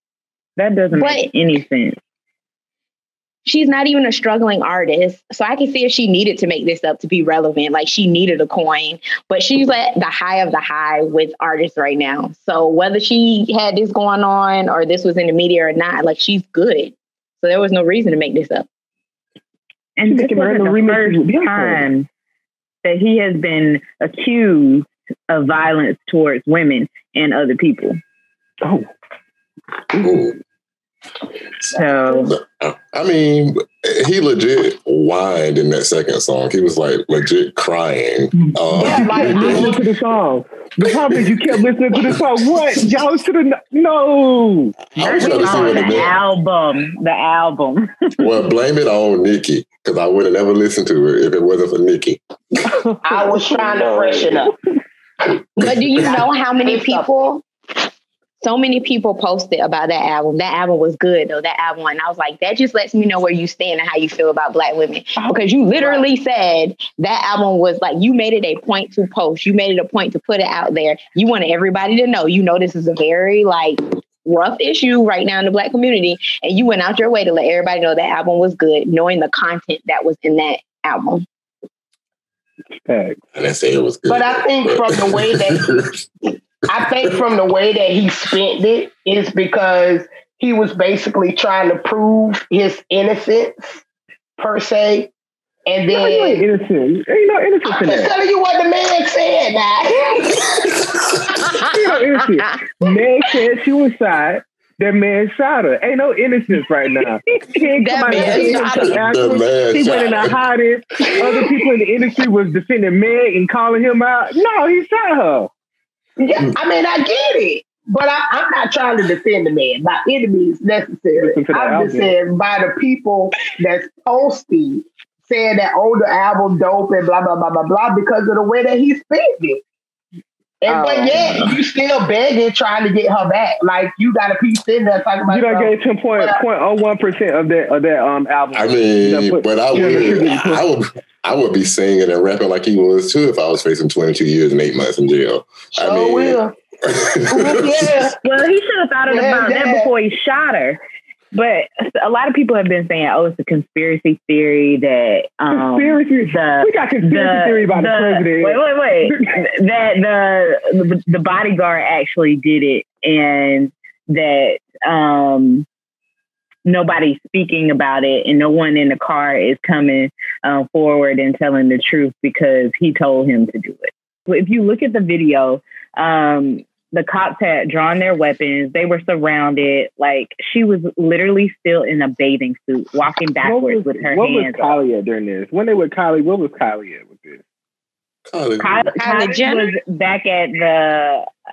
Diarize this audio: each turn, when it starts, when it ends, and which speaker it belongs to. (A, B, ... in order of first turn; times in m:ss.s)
0:00.6-0:02.0 A
0:00.9-0:01.3 B
0:03.4-0:18.7 B
0:20.0-0:22.1 A
0:20.0-0:21.9 C
0:22.8-0:28.0 A
0:30.0-0:30.4 D
0:31.7-0:32.4 A
0:32.2-0:39.8 D
0:38.7-0:44.8 C
0:38.8-0:39.8 E
0:45.0-0:46.1 D
0:45.0-0:47.9 A
0:45.1-0:46.1 E
0:48.2-0:52.2 D
0:52.7-0:54.5 C
0:53.0-0:54.5 E
0:55.6-0:57.4 B
0:55.6-0:56.2 D
0:56.0-0:57.3 E
0:58.4-1:21.2 B
1:05.8-1:06.1 E
1:22.8-1:23.2 C
1:23.4-1:26.0 D
1:24.1-1:25.7 E
1:26.7-1:33.8 E
1:34.4-1:35.1 E
1:35.7-1:36.5 E
1:35.9-1:38.1 C
1:37.7-1:40.7 E
1:40.7-1:41.4 D
1:41.4-1:42.8 B
1:41.7-1:55.5 C
1:47.8-1:49.0 B
1:48.1-1:50.3 D
1:56.2-2:09.6 E
2:01.2-2:02.1 C
2:10.6-2:16.4 E
2:10.7-2:11.6 B
2:15.2-2:20.6 C
2:18.5-2:28.1 D
2:25.8-2:26.6 E
2:27.3-2:28.2 E
2:28.2-2:30.8 A
2:29.1-2:29.9 E
2:31.3-2:45.7 A
2:35.5-2:38.6 C
2:46.6-3:04.8 A
3:03.4-3:07.4 C
3:08.3-3:08.9 D
3:08.6-3:11.3 A
3:09.0-3:09.7 B